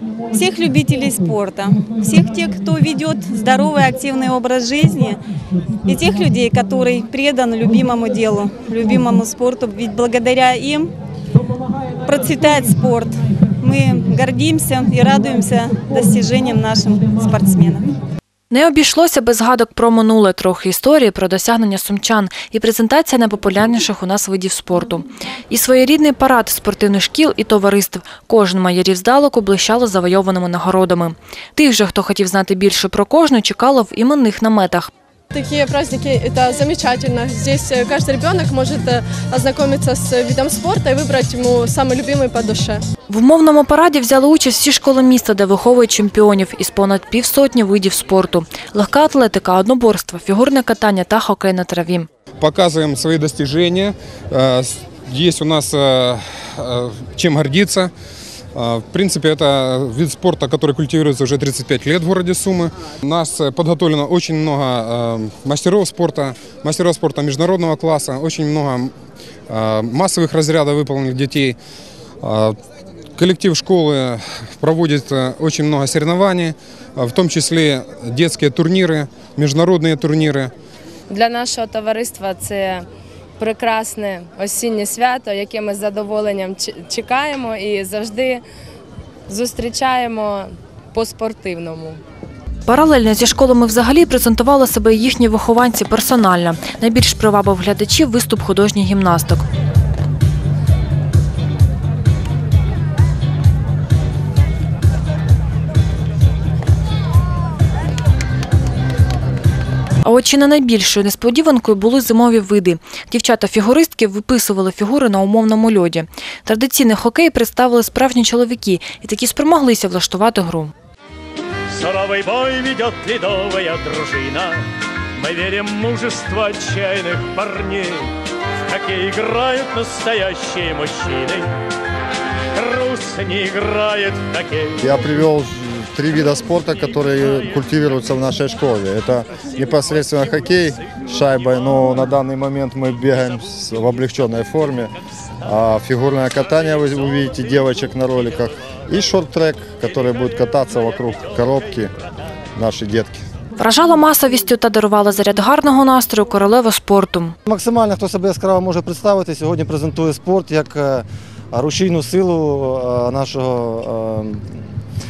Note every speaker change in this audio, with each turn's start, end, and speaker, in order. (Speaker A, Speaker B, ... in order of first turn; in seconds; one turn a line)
Speaker A: 0.3-5.2
Speaker A: 5.9-10.9
Speaker A: 12.0-17.8
Speaker B: 18.5-34.9
Speaker C: 35.3-42.8
Speaker B: 43.1-52.1
Speaker D: 52.4-57.9
Speaker D: 58.5-68.9
Speaker D: 69.5-71.6
Speaker D: 72.2-72.5
Speaker D: 73.2-80.5
Speaker E: 81.1-82.8
Speaker E: 83.4-88.4
Speaker E: 89.3-92.0
Speaker B: 92.7-99.4
Speaker B: 110.0-120.7
Speaker F: 121.7-124.6
Speaker F: 125.2-128.1
Speaker F: 128.7-131.5
Speaker F: 132.6-134.9
Speaker G: 134.8-144.9
Speaker G: 145.4-151.9
Speaker G: 152.6-153.2
Speaker B: 153.6-157.3
Speaker H: 157.5-164.6